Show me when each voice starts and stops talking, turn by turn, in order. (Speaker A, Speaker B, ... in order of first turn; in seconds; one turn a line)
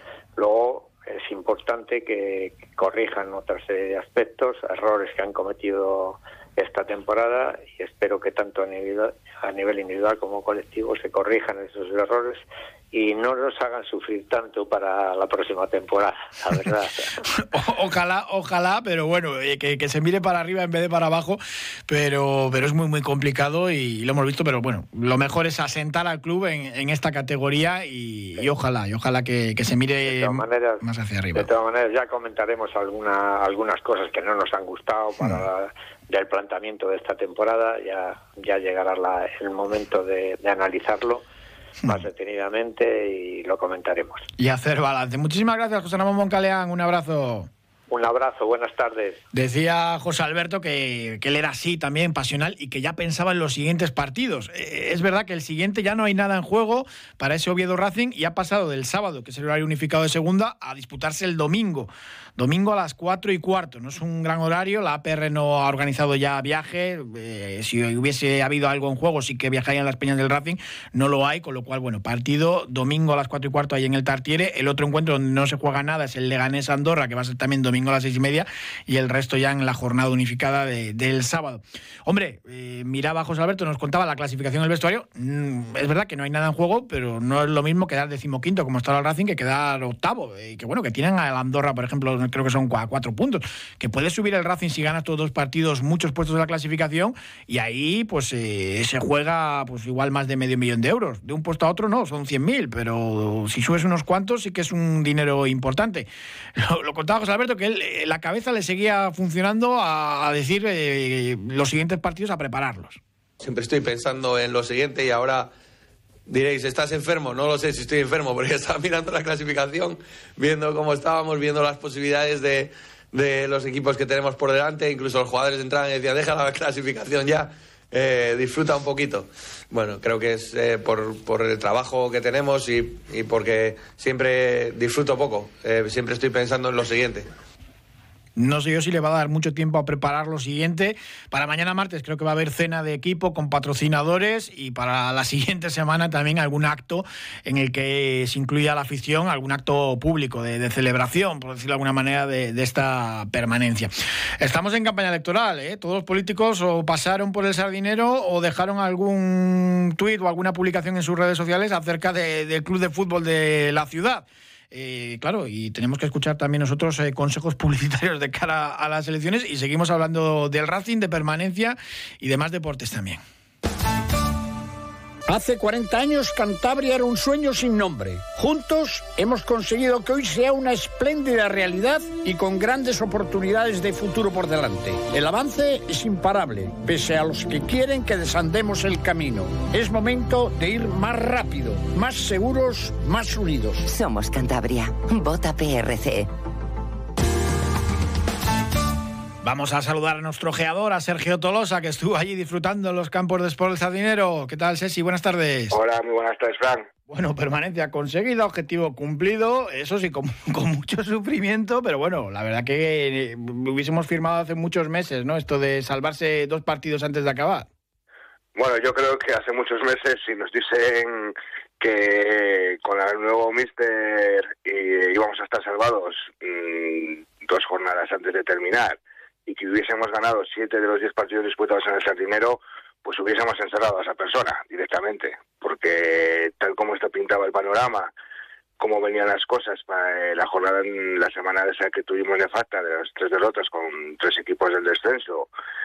Speaker A: 0.4-17.2
Speaker B: 17.3-31.5
Speaker A: 30.0-30.8
Speaker A: 31.3-41.2
Speaker A: 41.9-44.3
Speaker B: 44.4-47.5
Speaker A: 47.9-49.2
Speaker B: 49.3-113.0
Speaker C: 113.4-115.5
Speaker C: 116.3-137.3
Speaker B: 138.3-173.2
Speaker D: 175.3-193.8
Speaker E: 193.8-196.3
Speaker B: 199.4-205.8
Speaker F: 205.7-206.9
Speaker B: 207.1-217.7
Speaker F: 218.5-238.1
Speaker F: 238.8-245.5